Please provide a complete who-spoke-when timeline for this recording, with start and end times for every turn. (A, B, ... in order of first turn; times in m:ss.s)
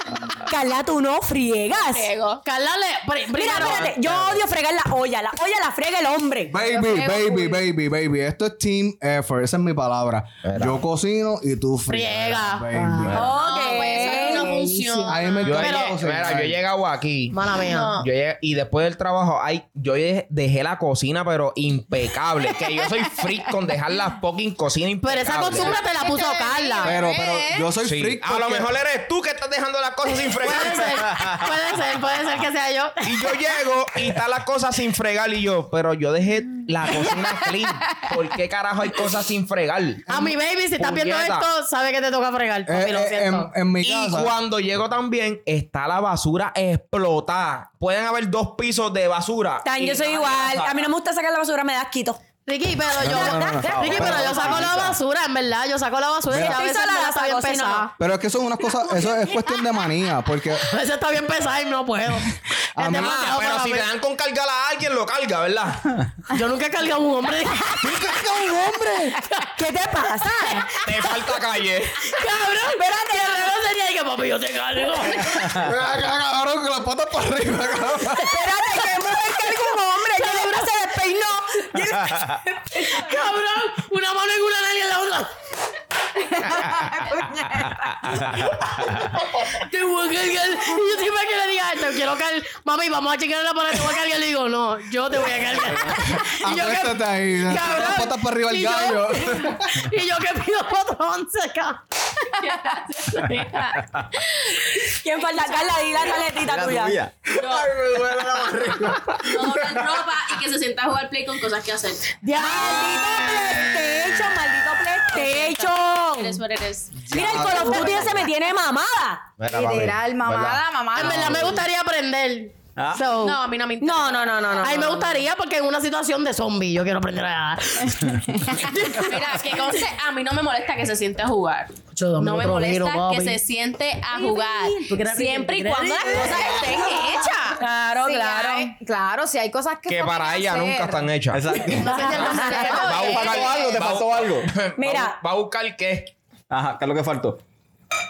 0:00.4-0:02.1 A
0:01.9-0:02.4 B
0:02.4-0:04.0 C
0:03.3-0:06.5 A
0:04.0-0:04.4 D
0:06.5-0:13.2 E
0:06.7-0:07.6 F
0:10.4-0:10.8 D
0:11.9-0:12.7 C
0:12.7-0:15.3 F
0:13.1-0:14.5 A
0:13.1-0:15.5 B
0:15.1-0:16.6 E
0:15.4-0:25.8 D
0:15.5-0:16.0 C
0:17.3-0:18.0 C
0:17.7-0:18.1 B
0:25.0-0:27.2 C
0:25.4-0:27.7 F
0:26.8-0:28.7 E
0:27.8-0:31.5 D
0:30.4-0:33.4 C
0:33.0-0:40.0 D
0:40.1-0:43.5 C
0:40.8-0:41.5 D
0:42.7-0:44.3 E
0:43.8-0:50.8 D
0:49.6-0:52.2 A
0:52.4-0:57.9 C
0:53.0-0:54.8 E
0:53.6-0:54.9 G
0:54.0-0:54.6 D
0:56.3-0:56.6 E
0:56.4-0:57.9 A
0:58.0-1:00.7 E
1:00.6-1:03.9 C
1:02.8-1:03.2 E
1:02.9-1:05.9 D
1:06.3-1:08.2 C
1:07.8-1:09.2 E
1:09.6-1:10.8 A
1:10.6-1:11.1 C
1:10.8-1:12.1 D
1:12.0-1:15.6 C
1:12.9-1:13.4 A
1:15.5-1:18.4 E
1:18.2-1:22.2 A
1:20.2-1:20.7 C
1:22.7-1:25.3 C
1:26.5-1:27.8 F
1:29.0-1:41.8 C
1:36.2-1:39.9 E
1:42.4-1:44.0 B
1:44.8-1:47.0 A
1:45.1-1:46.3 B
1:46.4-1:49.6 G
1:47.4-1:52.2 B
1:52.2-1:53.2 C
1:52.4-1:55.7 A
1:55.2-1:57.0 B
1:55.2-1:56.4 C
1:57.0-1:58.3 E
1:57.1-1:59.2 A
1:57.1-1:58.1 G
1:57.6-1:58.0 F
1:59.4-2:01.6 D
1:59.5-2:01.6 F
2:00.9-2:03.4 C
2:02.8-2:03.1 G
2:03.1-2:05.0 B
2:03.8-2:05.2 A
2:04.6-2:09.1 C
2:08.8-2:17.1 B
2:11.9-2:13.4 C
2:14.1-2:23.8 F
2:14.9-2:16.9 C
2:17.6-2:18.7 A
2:19.9-2:21.4 D
2:21.3-2:24.5 G
2:21.7-2:23.5 C
2:21.9-2:22.6 A
2:22.0-2:26.1 D
2:24.8-2:25.2 A
2:26.5-2:27.4 G